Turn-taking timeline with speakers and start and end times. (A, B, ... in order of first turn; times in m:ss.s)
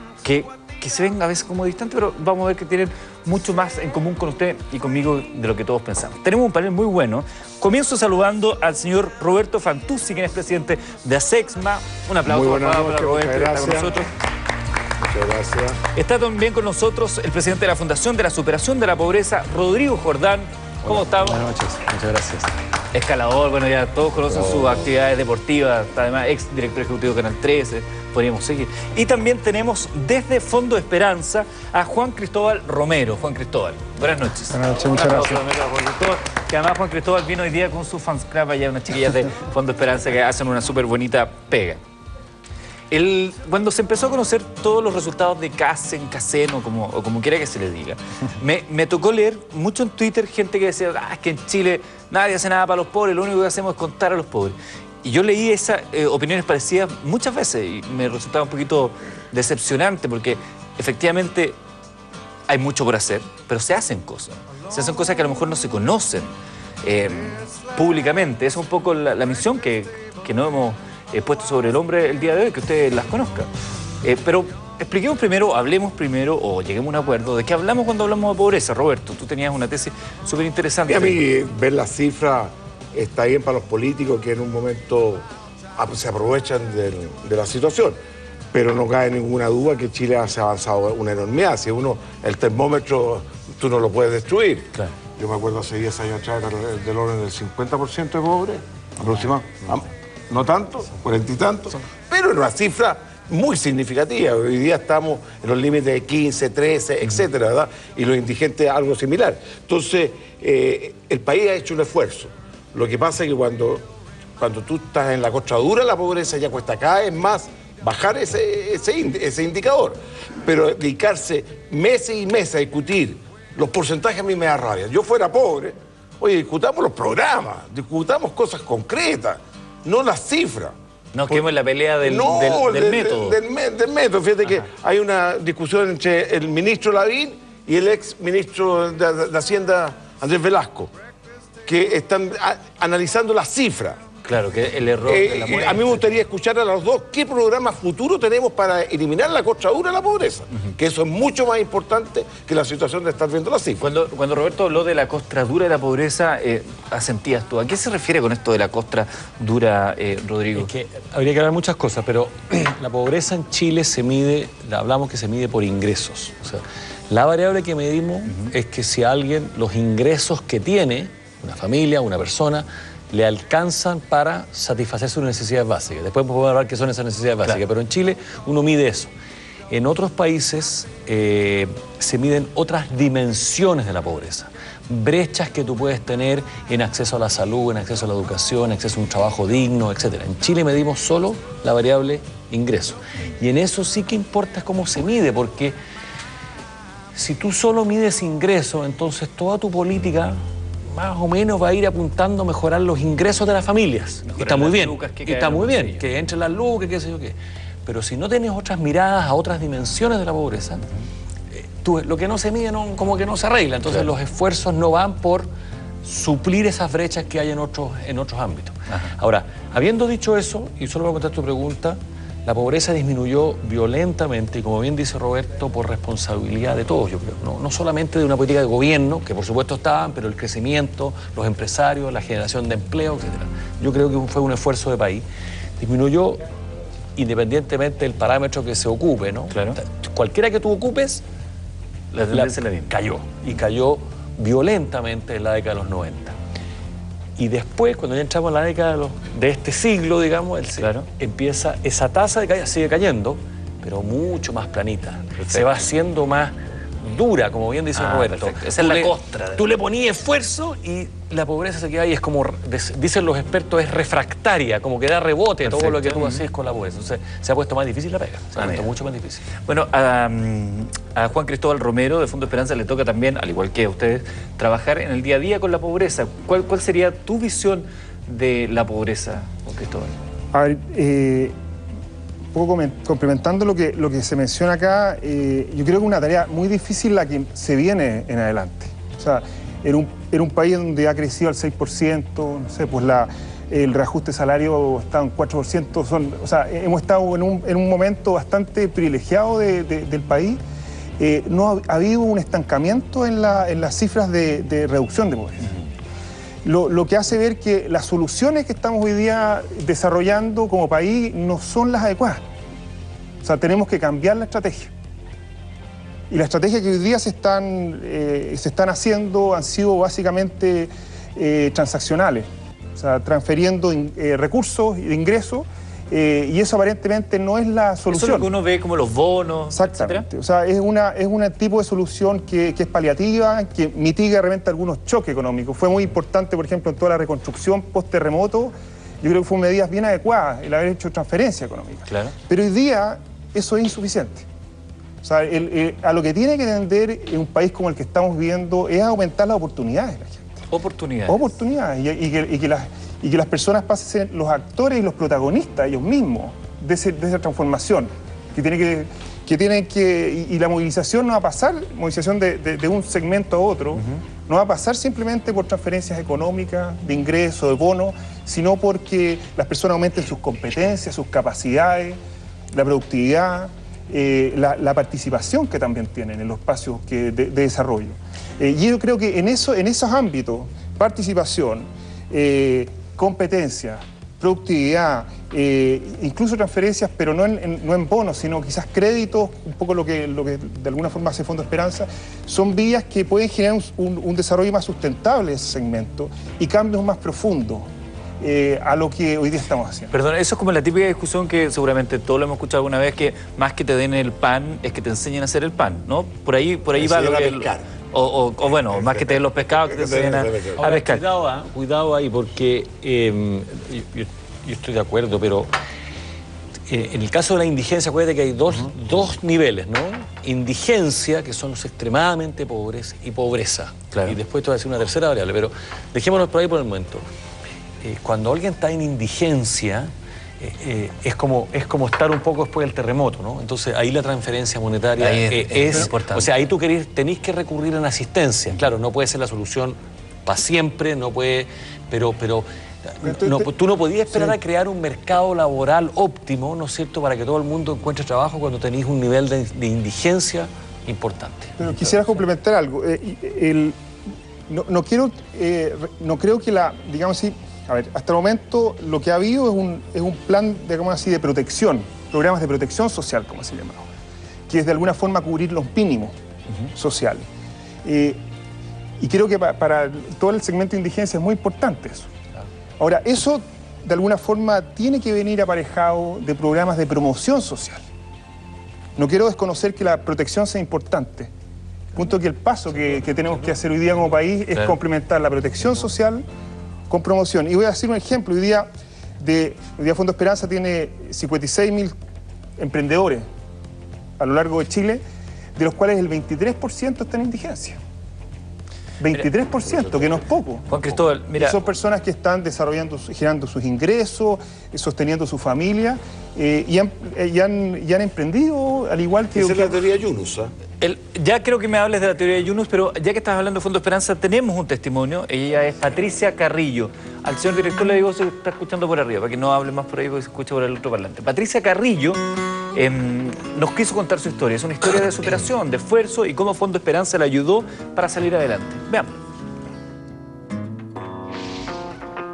0:00.2-0:14.1 A
0:12.2-0:14.0 B
0:15.0-0:15.8 B
0:15.9-0:21.6 A
0:22.9-0:41.8 A
0:34.5-0:35.4 C
0:42.9-1:01.6 A
1:02.5-1:06.3 A
1:06.8-1:13.5 A
1:14.0-1:21.2 A
1:20.9-1:25.2 B
1:25.8-1:28.0 B
1:28.5-1:53.9 B
1:54.4-2:10.7 B
2:11.1-2:13.4 A
2:12.0-2:20.9 B
2:21.7-2:24.0 B
2:24.2-2:26.2 A
2:25.1-2:33.8 B
2:33.8-2:40.7 A
2:40.6-2:59.1 D
2:48.3-2:48.5 A
2:59.7-3:15.8 D
3:17.2-3:30.8 D
3:24.3-3:26.0 A
3:31.5-3:35.5 D
3:36.0-3:55.2 D
3:55.8-3:56.4 D
3:57.2-4:01.2 D
3:59.5-3:59.8 A
4:02.1-4:02.9 A
4:02.3-4:06.4 D
4:07.4-4:29.5 D
4:10.8-4:11.1 A
4:15.4-4:15.9 A
4:18.0-4:19.7 A
4:25.6-4:26.4 A
4:28.6-4:28.9 A
4:29.7-4:40.2 A
4:40.5-4:41.6 C
4:42.5-5:00.6 C
5:01.2-5:05.7 C
5:06.6-5:12.4 C
5:13.4-5:14.9 C
5:16.3-5:28.5 C
5:28.1-5:30.3 A
5:29.7-5:44.5 C
5:42.1-5:42.3 A
5:45.2-5:50.5 C
5:50.7-5:51.5 A
5:51.3-6:12.2 C
6:12.7-6:37.9 C
6:38.4-6:40.1 C
6:40.1-6:51.2 A
6:47.0-6:47.9 B
6:48.9-6:50.8 B
6:50.8-6:55.7 D
6:56.9-7:07.2 D
7:08.0-7:32.1 D
7:15.2-7:16.5 A
7:23.2-7:23.7 C
7:31.8-7:34.0 C
7:34.7-7:44.1 C
7:44.7-7:46.4 C
7:46.9-7:47.4 C
7:48.0-7:48.4 C
7:49.2-7:52.3 C
7:53.0-7:58.0 C
7:59.2-8:01.5 C
8:02.2-8:06.4 C
8:07.1-8:08.9 C
8:09.4-8:12.2 C
8:12.8-8:13.5 C
8:14.4-8:15.2 C
8:15.8-8:18.0 C
8:19.2-8:20.8 C
8:20.9-8:21.8 A
8:21.6-8:30.0 C
8:29.5-8:30.7 B
8:31.0-8:42.4 A
8:42.9-8:49.4 A